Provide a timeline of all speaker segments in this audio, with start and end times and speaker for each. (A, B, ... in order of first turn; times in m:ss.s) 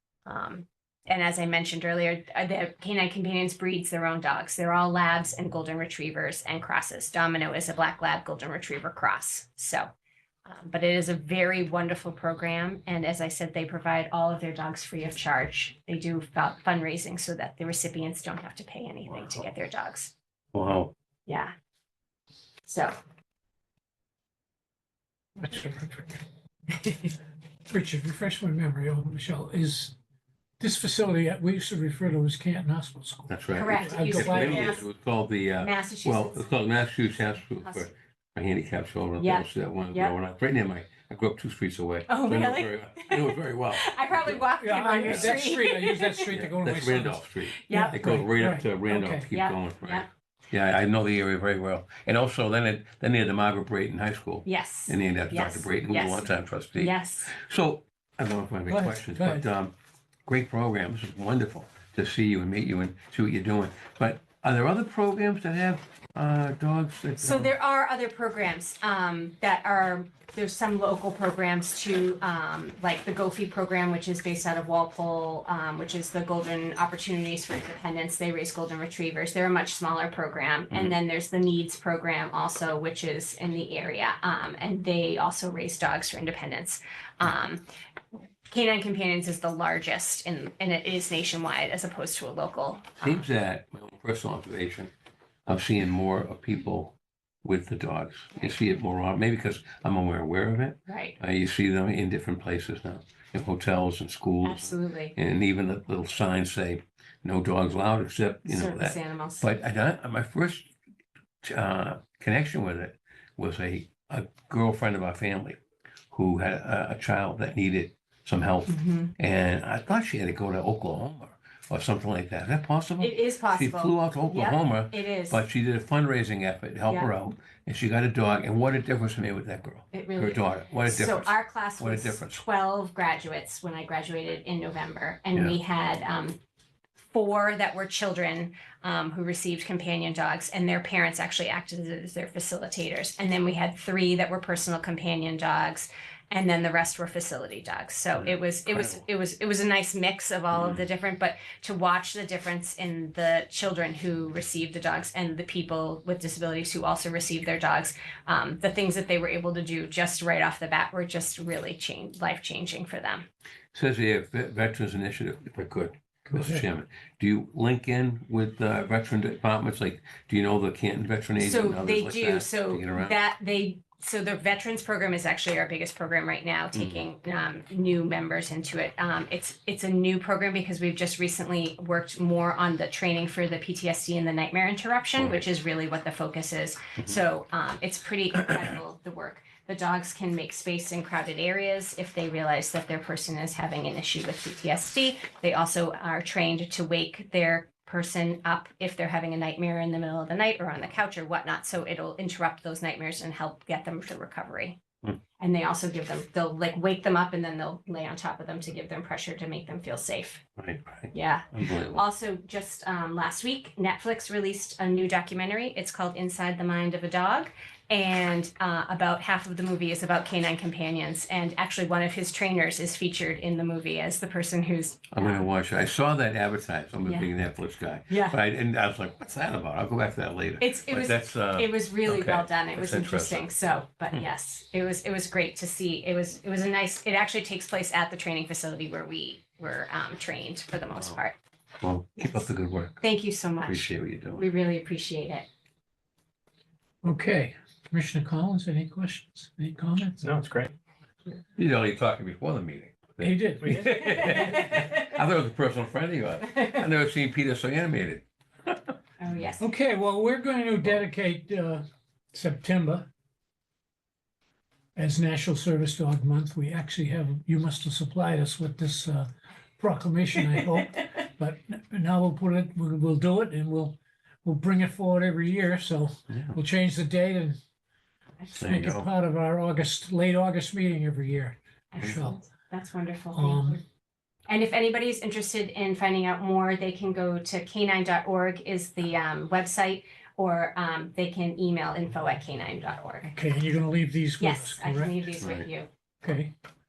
0:00.3-0:09.9 A
0:10.5-0:20.1 A
0:20.5-0:20.9 B
0:21.3-0:21.5 A
0:22.6-0:23.0 A
0:25.4-0:26.2 C
0:27.7-0:30.0 C
0:30.6-0:34.6 C
0:33.3-0:44.5 B
0:33.5-0:34.9 A
0:35.6-0:36.5 A
0:37.6-0:37.9 A
0:39.2-0:40.1 A
0:42.1-0:46.4 A
0:44.6-0:49.3 C
0:46.3-0:59.7 B
0:47.6-0:48.1 A
0:49.3-0:50.1 A
0:54.4-0:57.3 A
0:58.7-0:59.5 C
1:00.3-1:07.5 B
1:07.2-1:27.6 A
1:28.5-1:33.3 A
1:33.0-1:34.9 B
1:35.5-1:50.7 B
1:40.9-1:41.2 A
1:44.4-1:45.2 A
1:48.5-1:49.5 A
1:51.4-1:55.6 B
1:56.1-2:12.4 B
1:58.7-1:59.1 A
2:03.0-2:05.4 A
2:09.9-2:16.4 A
2:17.1-2:43.3 A
2:28.2-2:29.0 B
2:30.5-2:30.8 B
2:43.7-2:53.2 B
2:46.3-2:46.6 C
2:51.4-3:24.8 A
2:56.7-2:57.0 B
3:25.4-3:30.4 A
3:30.6-3:32.0 B
3:31.1-3:45.5 A
3:45.1-3:53.5 B
3:47.0-3:47.3 A
3:48.1-3:48.4 A
3:50.6-4:01.4 A
4:01.8-4:03.0 B
4:02.2-4:02.4 A
4:03.0-4:05.5 A
4:03.6-4:04.4 B
4:07.0-4:10.7 C
4:11.6-4:19.0 B
4:13.2-4:14.6 C
4:14.3-4:14.9 A
4:19.2-4:19.7 A
4:19.6-4:23.1 C
4:25.0-4:29.3 C
4:29.8-4:37.6 C
4:36.3-4:36.6 B
4:38.5-4:42.4 C
4:38.5-4:39.1 B
4:41.9-4:43.8 A
4:43.3-4:43.8 C
4:44.5-4:53.3 A
4:53.3-4:55.3 C
4:54.4-4:55.9 A
4:55.4-4:55.7 B
4:56.2-4:56.5 C